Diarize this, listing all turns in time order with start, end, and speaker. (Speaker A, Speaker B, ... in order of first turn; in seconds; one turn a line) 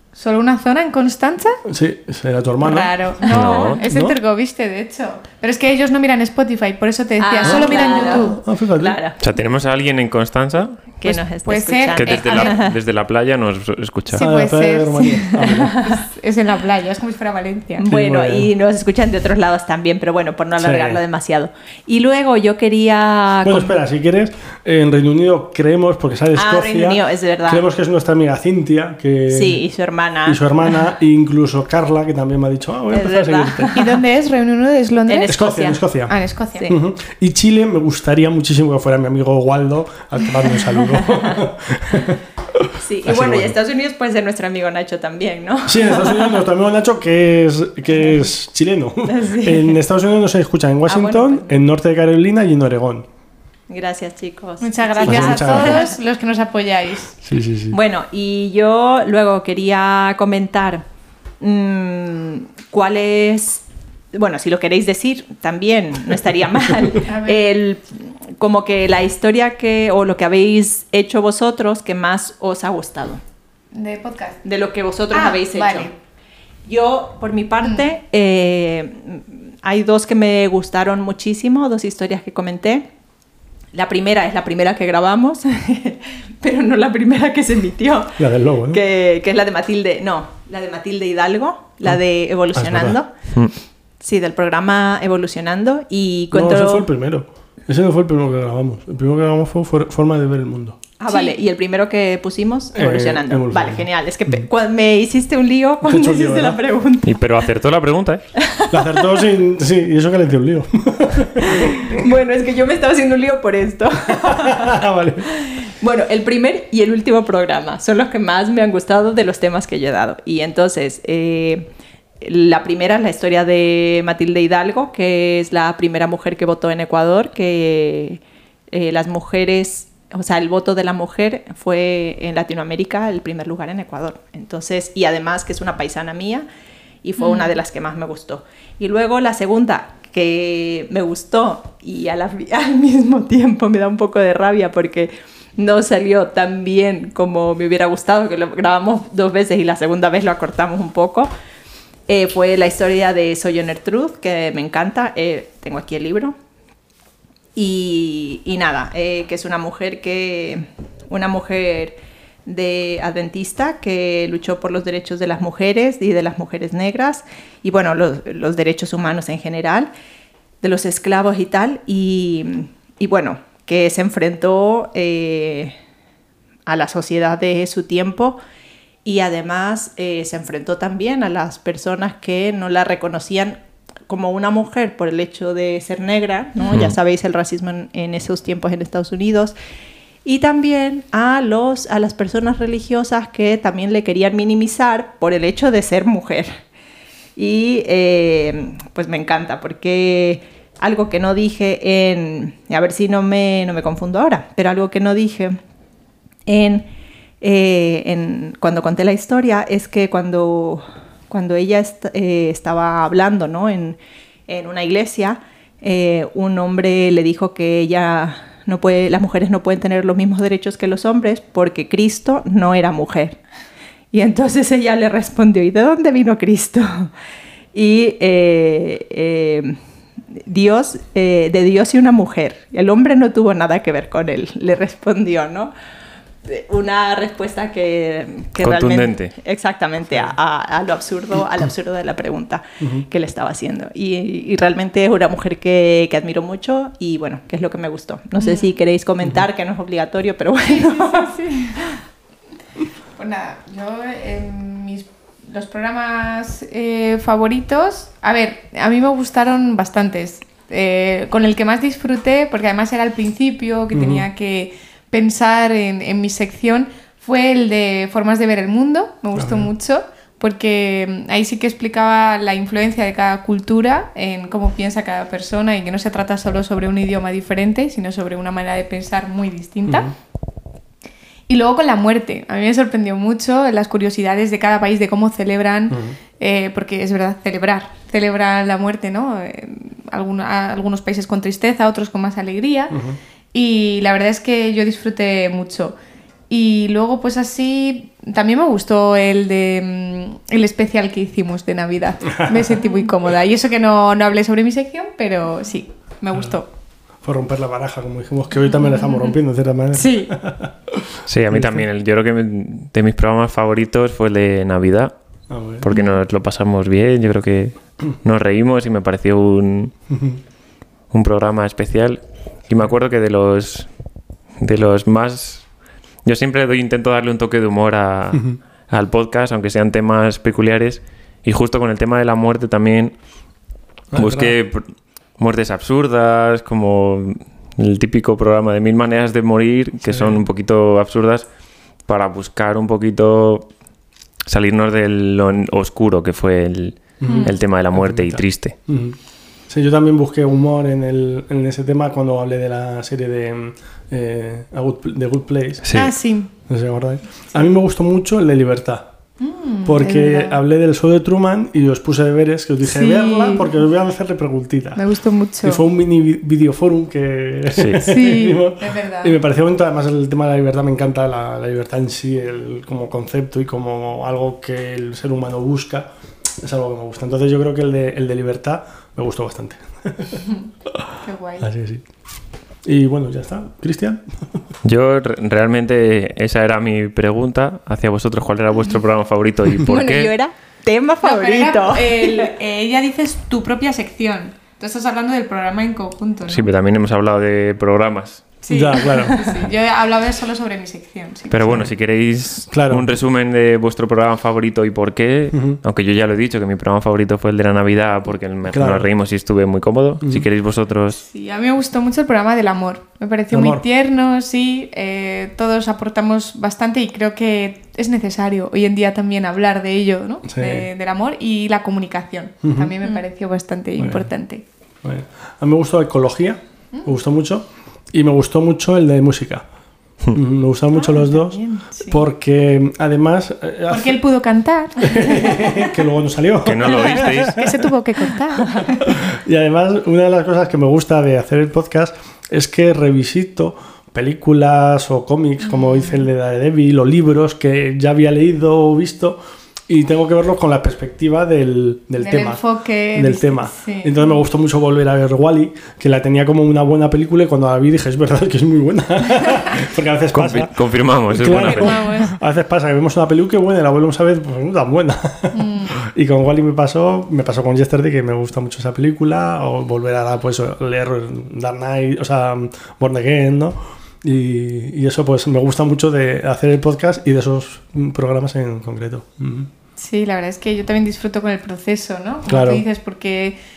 Speaker A: 0.2-1.6
Speaker B: 1.7-2.9
Speaker A: 2.6-8.4
Speaker C: 3.3-3.8
Speaker D: 3.3-3.8
Speaker B: 3.8-4.2
Speaker D: 7.2-9.2
Speaker B: 7.4-9.0
Speaker C: 9.2-10.8
Speaker D: 11.0-12.8
Speaker A: 11.1-12.7
Speaker C: 11.9-14.2
Speaker A: 14.1-17.9
Speaker B: 14.2-15.8
Speaker D: 15.4-16.0
Speaker D: 17.8-23.8
Speaker B: 17.9-18.5
Speaker B: 20.6-21.0
Speaker B: 23.4-29.6
Speaker D: 26.3-27.6
Speaker D: 29.3-30.4
Speaker B: 30.2-33.8
Speaker D: 32.9-34.0
Speaker A: 33.8-36.7
Speaker D: 35.1-35.8
Speaker B: 35.3-36.1
Speaker B: 36.7-43.6
Speaker D: 40.8-41.4
Speaker D: 42.8-46.4
Speaker B: 45.7-53.1
Speaker D: 49.1-49.8
Speaker D: 50.9-51.6
Speaker D: 53.7-56.0
Speaker A: 54.6-57.2
Speaker B: 55.1-55.8
Speaker B: 57.2-57.8
Speaker D: 57.7-60.8
Speaker D: 61.4-73.2
Speaker A: 67.0-67.4
Speaker A: 73.7-74.4
Speaker D: 74.4-75.9
Speaker A: 75.1-75.9
Speaker D: 76.7-82.9
Speaker D: 83.7-93.1
Speaker B: 88.2-88.8
Speaker B: 92.5-93.0
Speaker D: 94.0-96.9
Speaker B: 96.3-100.8
Speaker D: 101.0-107.2
Speaker A: 101.1-101.4
Speaker B: 102.8-104.5
Speaker B: 105.8-106.6
Speaker C: 107.0-108.2
Speaker D: 108.3-109.2
Speaker B: 108.7-112.0
Speaker D: 111.4-121.7
Speaker B: 114.2-115.3
Speaker D: 122.2-136.5
Speaker D: 137.0-151.3
Speaker A: 137.2-137.5
Speaker D: 152.1-156.4
Speaker D: 157.6-169.9
Speaker D: 170.6-175.8
Speaker D: 176.7-178.4
Speaker D: 179.0-189.6
Speaker C: 186.7-186.9
Speaker D: 190.2-196.6
Speaker D: 197.4-205.6
Speaker D: 206.5-206.9
Speaker D: 207.4-223.4
Speaker D: 224.1-227.1
Speaker D: 227.7-229.8
Speaker D: 230.3-235.7
Speaker D: 236.4-251.3
Speaker C: 238.6-239.3
Speaker A: 248.4-248.7
Speaker A: 250.7-251.9
Speaker A: 253.2-280.1
Speaker B: 263.9-264.2
Speaker B: 269.4-269.7
Speaker B: 279.9-280.1
Speaker A: 281.5-292.9
Speaker B: 292.9-293.2
Speaker A: 293.5-295.9
Speaker A: 296.5-306.7
Speaker B: 302.3-303.0
Speaker B: 307.2-311.9
Speaker A: 308.8-309.3
Speaker A: 309.9-310.3
Speaker C: 311.3-315.1
Speaker B: 315.5-315.9
Speaker C: 315.8-319.9
Speaker A: 315.9-316.2
Speaker B: 320.1-320.4
Speaker C: 321.1-323.9
Speaker C: 324.6-325.6
Speaker C: 326.2-333.1
Speaker B: 334.1-334.6
Speaker C: 334.1-334.8
Speaker C: 335.4-341.5
Speaker B: 340.0-340.4
Speaker C: 342.1-343.7
Speaker C: 344.5-348.8
Speaker B: 347.2-349.2
Speaker A: 347.3-347.6
Speaker B: 349.7-355.9
Speaker C: 355.8-356.1
Speaker A: 355.9-356.5
Speaker B: 356.7-359.1
Speaker A: 359.4-360.6
Speaker B: 359.9-365.0
Speaker A: 362.8-363.8
Speaker A: 365.0-365.8
Speaker B: 365.6-376.1
Speaker C: 367.8-368.0
Speaker A: 368.0-369.4
Speaker B: 376.6-380.4
Speaker A: 381.2-381.7
Speaker B: 381.6-382.0
Speaker B: 382.9-384.2
Speaker C: 384.8-390.3
Speaker D: 389.8-392.5
Speaker A: 391.2-396.7
Speaker C: 396.5-398.4
Speaker A: 398.6-401.8
Speaker B: 398.7-399.4
Speaker C: 401.5-411.2
Speaker B: 402.7-403.1
Speaker B: 405.5-405.8
Speaker B: 408.7-409.1
Speaker A: 411.1-424.6
Speaker B: 413.5-413.8
Speaker B: 420.5-420.9
Speaker B: 422.6-422.9
Speaker B: 424.0-424.3
Speaker B: 425.0-429.6
Speaker B: 430.3-434.2
Speaker A: 430.9-432.2
Speaker A: 433.9-436.0
Speaker B: 435.0-437.8
Speaker C: 436.6-437.6
Speaker A: 437.2-439.1
Speaker B: 439.1-452.6
Speaker A: 445.6-446.3
Speaker A: 452.2-454.4
Speaker B: 453.1-460.8
Speaker C: 460.3-462.1
Speaker B: 461.3-479.7
Speaker A: 461.5-462.4
Speaker A: 465.5-465.9
Speaker A: 480.0-483.6
Speaker B: 482.5-482.8